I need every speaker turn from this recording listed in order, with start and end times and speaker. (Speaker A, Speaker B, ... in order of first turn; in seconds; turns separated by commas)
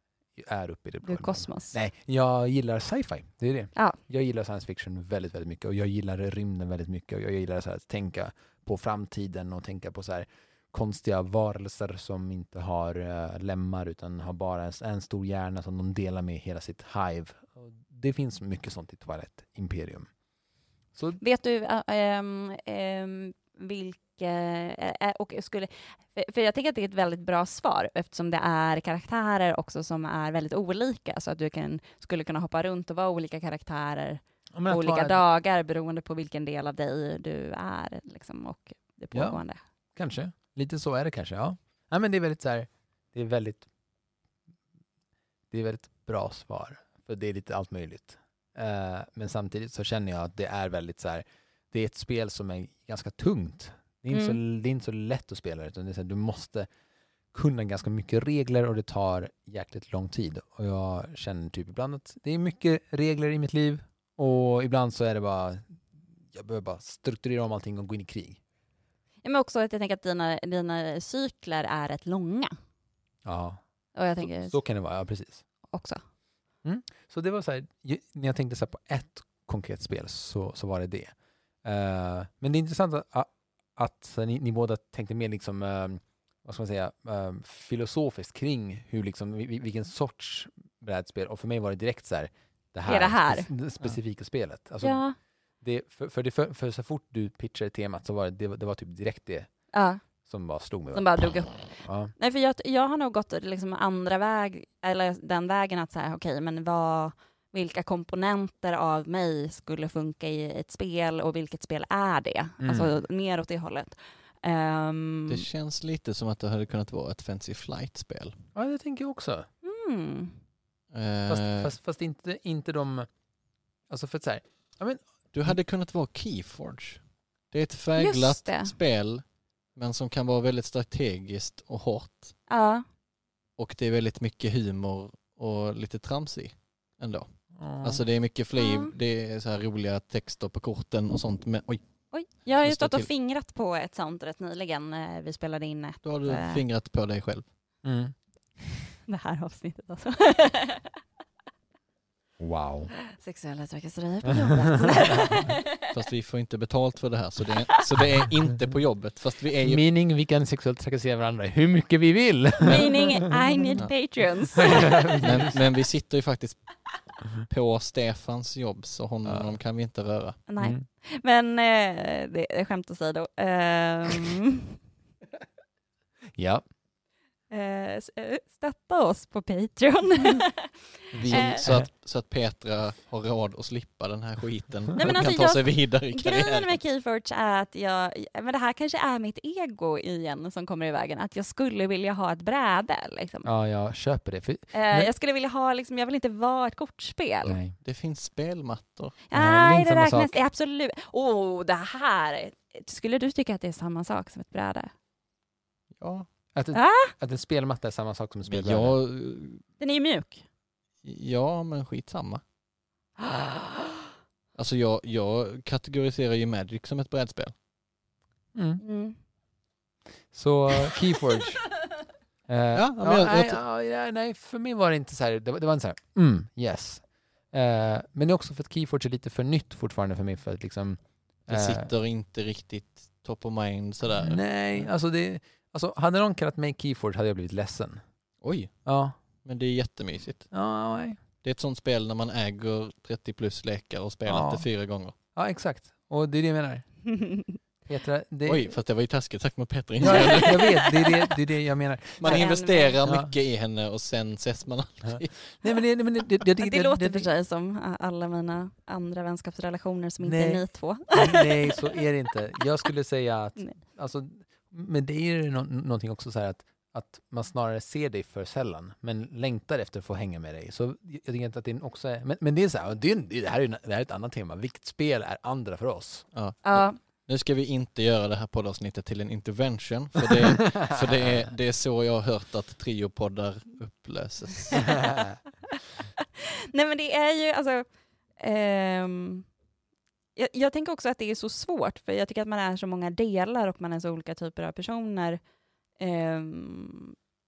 Speaker A: 0.4-20.1, Speaker B: 1.0-1.8, Speaker B: 21.2-39.6, Speaker A: 34.5-35.2, Speaker A: 39.1-39.4, Speaker A: 40.0-43.7, Speaker A: 45.5-56.7, Speaker B: 54.1-54.4, Speaker A: 57.3-68.4, Speaker B: 69.2-72.5, Speaker A: 73.2-73.6, Speaker B: 74.0-74.6, Speaker A: 74.2-75.4, Speaker B: 75.7-76.0, Speaker A: 76.6-81.1, Speaker A: 81.6-95.0, Speaker B: 92.9-93.5, Speaker B: 94.8-95.2, Speaker A: 95.6-99.5, Speaker B: 99.7-100.0, Speaker A: 100.3-102.1, Speaker B: 100.9-101.5, Speaker B: 102.2-115.5, Speaker A: 112.6-112.9, Speaker C: 115.3-118.4, Speaker A: 118.5-119.5, Speaker B: 119.6-120.3, Speaker C: 120.9-121.7, Speaker A: 121.3-123.1, Speaker A: 123.9-125.0, Speaker C: 125.3-129.2, Speaker B: 128.0-128.8, Speaker C: 129.8-132.3, Speaker B: 132.5-132.8, Speaker C: 133.6-137.3, Speaker A: 137.6-138.1, Speaker C: 137.8-141.8, Speaker B: 138.6-138.9, Speaker B: 142.1-146.6, Speaker C: 142.6-143.1, Speaker C: 146.0-147.4, Speaker A: 147.8-148.8, Speaker B: 149.1-150.9, Speaker A: 152.4-152.9, Speaker B: 153.1-155.9, Speaker A: 154.3-155.5, Speaker C: 155.9-159.8, Speaker A: 159.6-163.1, Speaker B: 162.6-165.2, Speaker A: 164.6-165.6, Speaker C: 165.2-166.8, Speaker C: 167.3-170.4, Speaker A: 169.2-169.5, Speaker B: 170.5-174.8, Speaker A: 170.6-170.8, Speaker A: 176.4-176.6, Speaker B: 177.5-181.6, Speaker A: 181.1-181.9, Speaker C: 181.3-186.7, Speaker B: 185.0-193.5, Speaker A: 193.4-195.1, Speaker B: 194.7-197.6, Speaker A: 197.4-197.8, Speaker C: 197.8-199.2, Speaker B: 199.3-204.9, Speaker A: 199.3-200.4, Speaker C: 206.0-206.3, Speaker A: 206.6-209.0, Speaker B: 206.7-207.1, Speaker C: 208.5-209.6, Speaker B: 209.8-210.4, Speaker C: 211.0-212.4, Speaker B: 213.2-213.9, Speaker C: 214.6-217.5, Speaker A: 218.6-218.8, Speaker B: 218.8-219.2, Speaker A: 220.3-221.7, Speaker A: 222.5-231.9, Speaker C: 222.8-223.6, Speaker C: 231.5-234.9, Speaker A: 234.2-238.0, Speaker C: 238.4-238.7, Speaker A: 238.9-239.1, Speaker C: 239.4-240.5, Speaker A: 240.5-241.2, Speaker C: 241.4-245.1, Speaker A: 244.3-244.7, Speaker A: 245.4-246.9, Speaker B: 247.1-247.6, Speaker A: 247.8-248.7, Speaker C: 248.5-250.7, Speaker A: 250.0-252.5, Speaker B: 250.0-250.7, Speaker C: 252.2-255.6, Speaker B: 252.3-253.0, Speaker A: 253.0-253.3, Speaker A: 255.1-257.3, Speaker B: 256.6-262.0, Speaker A: 260.2-276.3, Speaker C: 276.3-285.0, Speaker B: 276.6-277.0, Speaker A: 280.3-281.4, Speaker A: 285.0-285.4, Speaker B: 285.7-287.9, Speaker B: 288.4-289.4, Speaker B: 290.4-295.4, Speaker B: 296.0-297.2